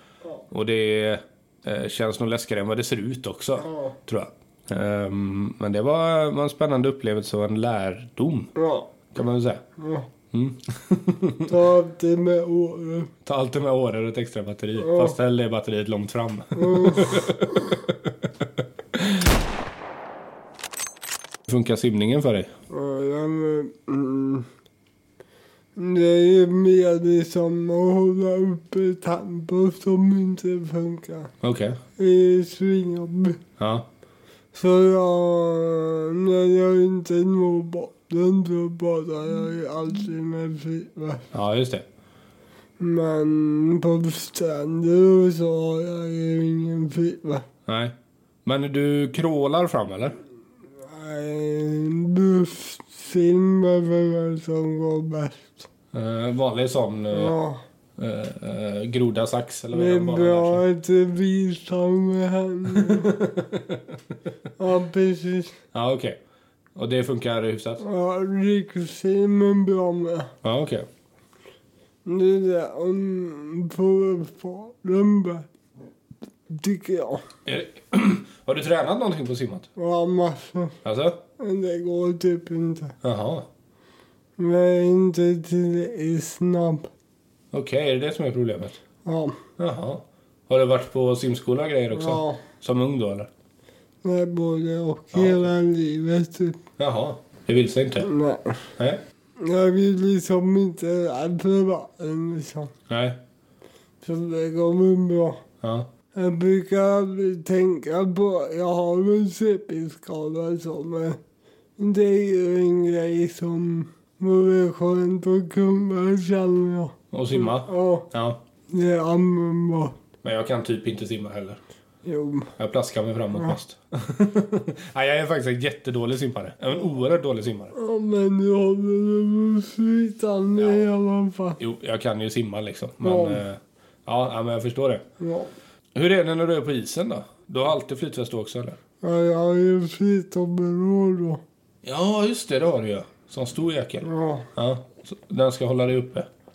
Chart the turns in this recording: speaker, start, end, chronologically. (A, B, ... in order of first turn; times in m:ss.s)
0:00.5-0:08.5 A
0:03.6-0:04.0 B
0:08.6-0:08.9 B
0:09.1-0:09.6 A
0:09.8-0:10.1 B
0:10.3-0:11.5 A
0:11.5-0:13.1 B
0:13.2-0:19.3 A
0:14.8-0:15.2 B
0:16.5-0:17.8 B
0:21.5-0:22.5 A
0:22.7-0:24.5 B
0:25.8-0:31.3 B
0:31.4-0:31.8 A
0:32.0-0:33.4 B
0:33.6-0:33.9 A
0:34.5-0:41.2 B
0:41.3-0:41.8 A
0:42.8-0:47.4 B
0:47.7-0:47.9 A
0:48.4-0:50.2 A
0:50.8-0:55.7 B
0:55.9-0:57.4 A
0:57.1-0:57.6 B
0:58.0-1:00.6 A
0:59.7-1:03.2 B
1:02.7-1:04.1 A
1:04.6-1:05.6 B
1:05.7-1:06.2 A
1:06.8-1:07.8 A
1:07.8-1:10.3 B
1:10.4-1:10.9 A
1:12.0-1:15.5 B
1:16.5-1:17.2 B
1:17.4-1:19.7 A
1:19.8-1:20.8 B
1:20.8-1:21.2 A
1:21.4-1:23.0 B
1:23.0-1:23.5 A
1:24.4-1:26.9 B
1:27.5-1:28.8 A
1:29.0-1:29.4 B
1:29.6-1:33.3 A
1:31.9-1:32.4 B
1:34.0-1:36.6 B
1:35.1-1:35.4 A
1:36.8-1:38.1 A
1:38.0-1:38.7 B
1:39.4-1:42.7 B
1:42.9-1:43.2 A
1:44.0-1:45.4 B
1:45.6-1:45.9 A
1:46.1-1:51.2 B
1:51.8-1:58.1 B
1:57.1-1:58.4 A
1:58.7-2:00.0 B
2:00.2-2:01.6 A
2:02.0-2:02.6 B
2:02.6-2:07.7 A
2:07.7-2:11.6 B
2:10.6-2:10.9 A
2:11.6-2:15.0 A
2:13.0-2:13.4 B
2:15.2-2:15.5 B
2:15.9-2:18.8 A
2:19.0-2:21.4 B
2:21.8-2:26.3 A
2:24.0-2:24.5 B